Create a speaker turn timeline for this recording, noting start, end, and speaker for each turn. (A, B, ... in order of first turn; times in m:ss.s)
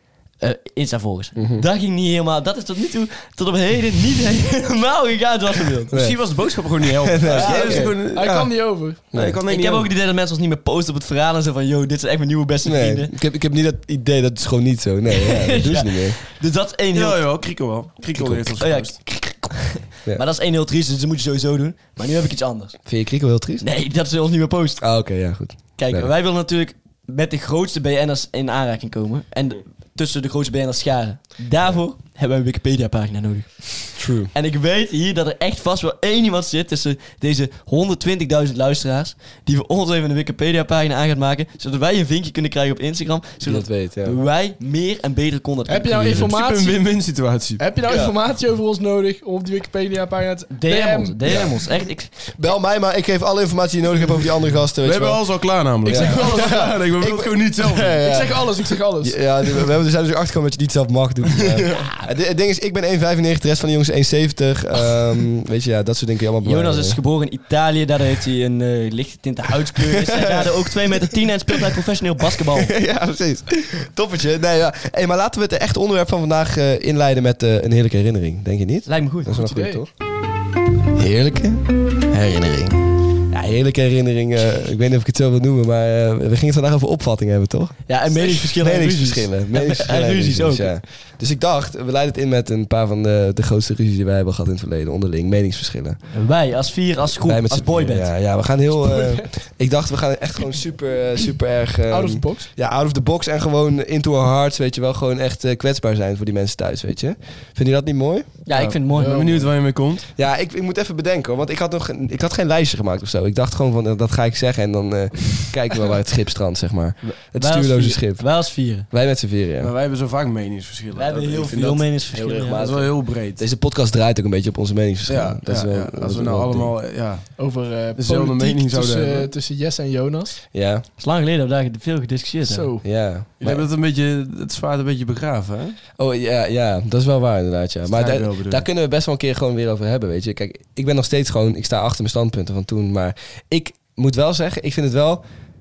0:00.4-0:05.9 A
0:01.4-0:01.6 B
0:05.9-0:08.4 C
0:05.9-0:06.2 B
0:07.0-0:08.5 B
0:07.3-0:07.9 A
0:07.6-0:09.1 D
0:09.1-0:09.4 B
0:09.1-0:09.9 C
0:09.4-0:13.1 A
0:12.6-0:16.2 B
0:15.1-0:17.2 A
0:16.9-0:19.0 C
0:18.1-0:18.5 B
0:18.6-0:22.8 A
0:22.8-0:23.6 B
0:23.6-0:24.8 A
0:24.8-0:26.1 B
0:25.8-0:46.3 A
0:34.0-0:34.3 B
0:43.4-0:44.2 B
0:45.7-0:51.2 D
0:46.1-0:47.7 C
0:47.9-0:48.1 B
0:50.5-0:52.2 A
0:51.3-0:51.6 B
0:52.3-0:58.5 B
0:54.8-0:58.1 C
0:55.8-0:56.8 D
0:58.0-0:59.2 D
0:59.0-1:07.0 B
1:01.3-1:01.9 C
1:01.7-1:02.0 A
1:06.4-1:12.7 A
1:09.9-1:10.7 B
1:12.4-1:19.9 B
1:18.8-1:19.4 A
1:19.3-1:19.8 D
1:21.0-1:22.7 B
1:23.3-1:36.0 B
1:27.9-1:30.7 A
1:36.1-1:38.1 A
1:37.2-1:48.4 B
1:38.8-1:39.3 D
1:41.9-1:42.5 D
1:48.4-1:49.4 A
1:48.5-1:50.1 C
1:48.9-1:49.5 D
1:50.1-1:59.7 B
1:57.0-1:58.9 A
1:59.6-2:03.4 C
2:00.9-2:02.7 A
2:02.1-2:06.7 B
2:05.1-2:07.4 C
2:07.4-2:10.4 D
2:07.9-2:09.3 C
2:10.5-2:10.8 B
2:11.0-2:12.7 A
2:12.4-2:12.8 D
2:12.8-2:13.6 B
2:13.4-2:15.8 C
2:16.0-2:25.2 B
2:17.9-2:18.6 C